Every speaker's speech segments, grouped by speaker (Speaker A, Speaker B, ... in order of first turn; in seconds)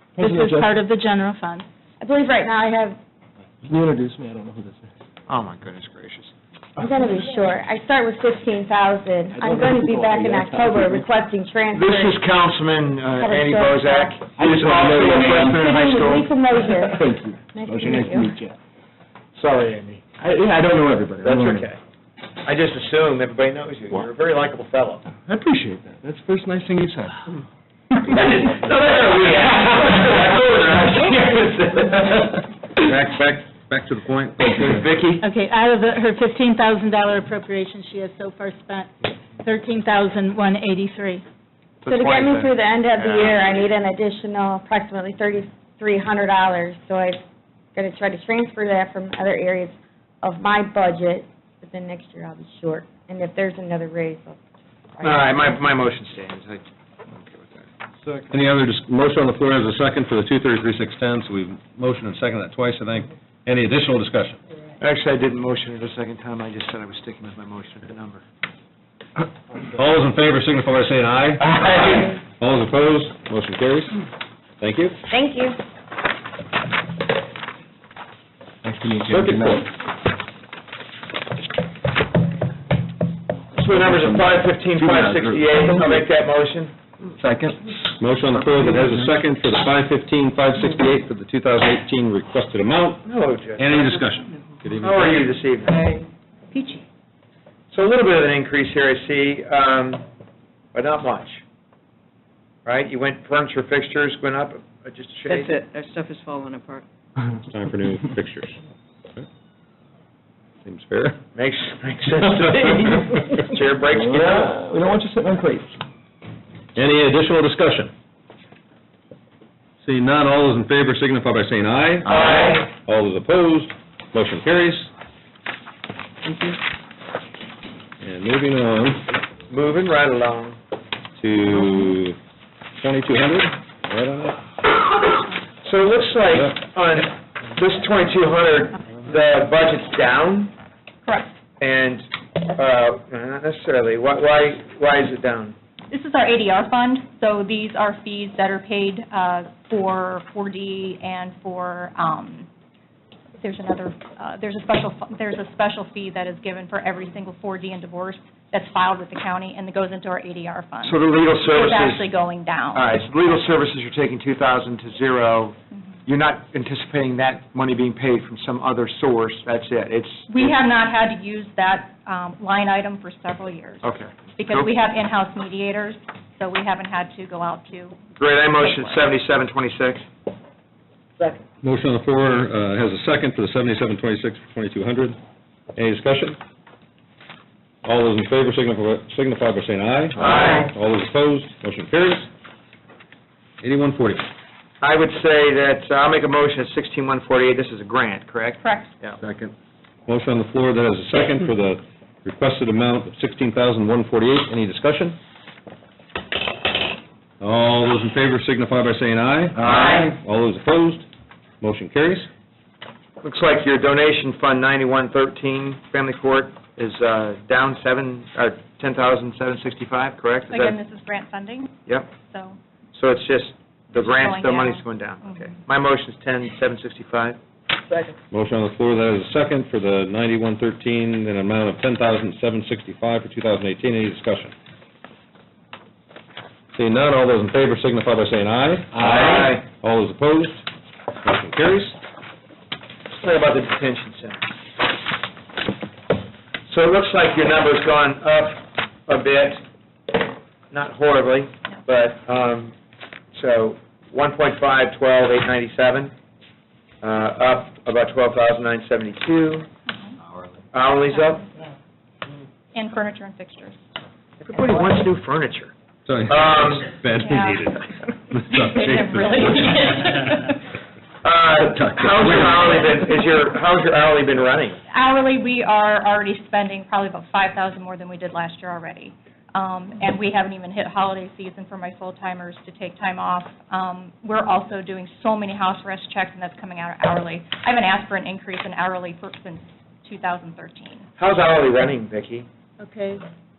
Speaker A: 0.2-0.8, 3.6-4.9, 9.3-11.1, 14.3-15.7, 16.8-18.6, 20.2-21.7, 25.2-27.2, 29.4-29.8, 78.6-79.7, 83.7-86.1, 87.2-87.8, 88.8-89.1, 113.9-115.8, 272.3-272.7
Speaker B: 0.2-1.6, 35.2-41.2, 292.8-293.2
Speaker C: 2.0-3.0, 6.8-12.2, 13.2-14.2, 15.0-18.3, 41.9-47.2, 47.7-54.4, 54.9-55.3, 75.1-75.6
Speaker D: 5.3-6.3, 11.7-16.3, 19.4-20.1, 21.2-21.8, 22.4-25.1, 28.0-32.4, 34.4-35.2, 41.8-43.7, 55.0-57.7, 64.8-68.2, 83.5-86.8, 93.0-93.9, 94.8-95.8, 97.7-100.0, 100.7-101.4, 102.7-105.6, 111.3-114.6, 122.0-122.7, 129.5-130.6, 135.6-140.5, 141.6-145.6, 160.8-162.1, 162.7-170.5, 173.8-174.7, 178.2-180.1, 190.2-190.7, 194.8-199.2, 209.5-210.1, 213.2-220.8, 221.8-222.1, 222.9-227.4, 238.9-239.7, 243.1-244.4, 246.7-249.6, 250.7-252.8, 253.3-256.1, 257.0-259.7, 260.7-261.4, 264.4-265.7, 266.2-266.9, 271.2-274.8, 291.2-292.5
Speaker E: 32.9-34.8, 58.3-64.4, 69.8-71.8, 72.3-74.0, 74.6-75.0, 79.0-79.6, 88.0-93.0, 93.6-95.2, 107.4-108.6, 110.7-111.2, 116.8-117.9, 119.8-124.9, 126.3-126.5, 128.0-129.0, 131.2-132.2, 132.8-134.4, 181.6-185.2, 185.8-186.4, 187.8-192.3, 193.6-194.3, 199.2-199.5, 200.1-205.2, 207.4-211.1, 211.6-212.3, 228.3-234.5, 236.8-240.6, 241.2-242.0, 266.1-267.8, 268.3-269.2
Speaker F: 95.9-96.8, 105.3-106.8
Speaker G: 141.0-141.3, 145.9-152.5, 153.4-162.9, 170.3-173.8, 174.4-179.1, 198.6-198.9, 220.5-221.8, 222.3-222.6, 223.9-225.5, 262.7-263.8, 267.2-267.7, 268.3-270.6, 274.9-291.1